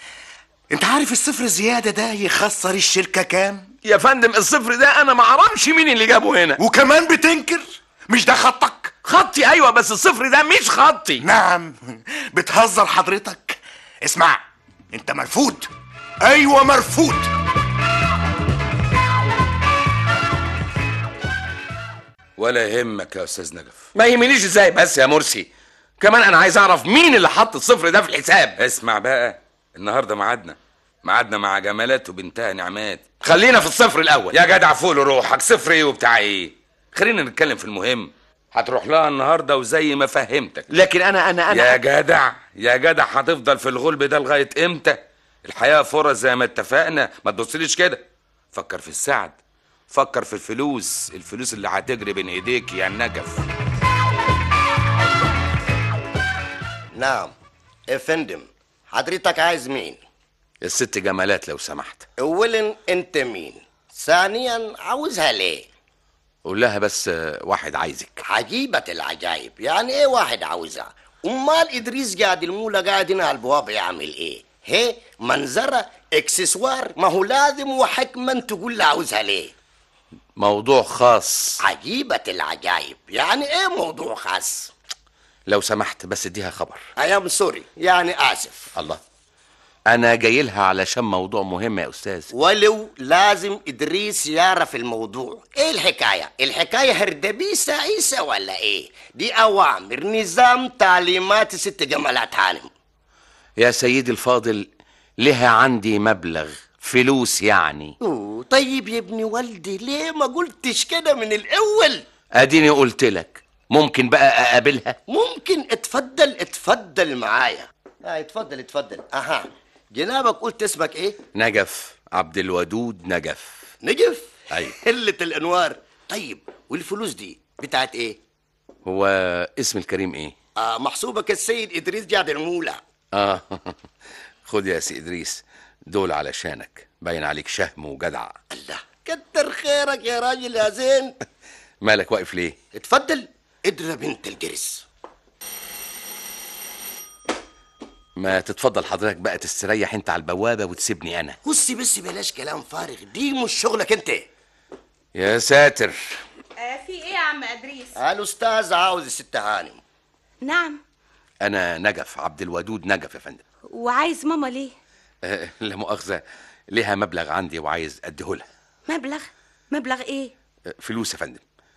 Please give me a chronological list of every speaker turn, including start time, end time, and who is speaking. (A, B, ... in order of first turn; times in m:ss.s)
0:00.7-0:03.7 A
0:03.8-0:06.6 B
0:06.6-0:09.0 A
0:09.0-0:11.2 B
0:11.2-0:15.7 A
0:16.2-0:17.3 A
0:22.4-0:23.9 C
0:23.9-0:28.6 B
0:28.6-0:33.0 C
0:33.2-0:34.4 B
0:34.3-0:40.7 C
0:40.7-0:41.8 B
0:41.5-0:49.4 C
0:49.9-0:53.4 C
0:56.9-0:57.3 D
0:57.9-1:00.0 D
1:00.6-1:02.0 B
1:02.2-1:05.7 D
1:06.4-1:08.2 B
1:08.2-1:19.5 D
1:20.4-1:21.6 B
1:21.6-1:24.7 D
1:25.5-1:26.8 B
1:27.0-1:28.7 D
1:28.7-1:29.0 B
1:29.9-1:32.3 B
1:32.3-1:42.7 D
1:43.6-1:48.0 B
1:48.0-1:52.0 D
1:52.3-1:55.0 B
1:55.1-2:01.2 D
2:01.3-2:03.7 B
2:03.8-2:08.2 D
2:08.8-2:10.3 B
2:10.6-2:12.8 D
2:13.1-2:13.8 B
2:14.4-2:18.3 B
2:18.5-2:21.2 D
2:21.8-2:22.6 B
2:22.7-2:24.8 D
2:28.2-2:31.4 B
2:31.4-2:34.2 D
2:35.1-2:36.2 B
2:36.6-2:38.0 E
2:37.9-2:39.8 D
2:40.4-2:40.8 E
2:41.4-2:43.4 B
2:43.7-2:44.7 E
2:45.2-2:48.5 B
2:48.9-2:50.3 E
2:50.7-2:51.4 B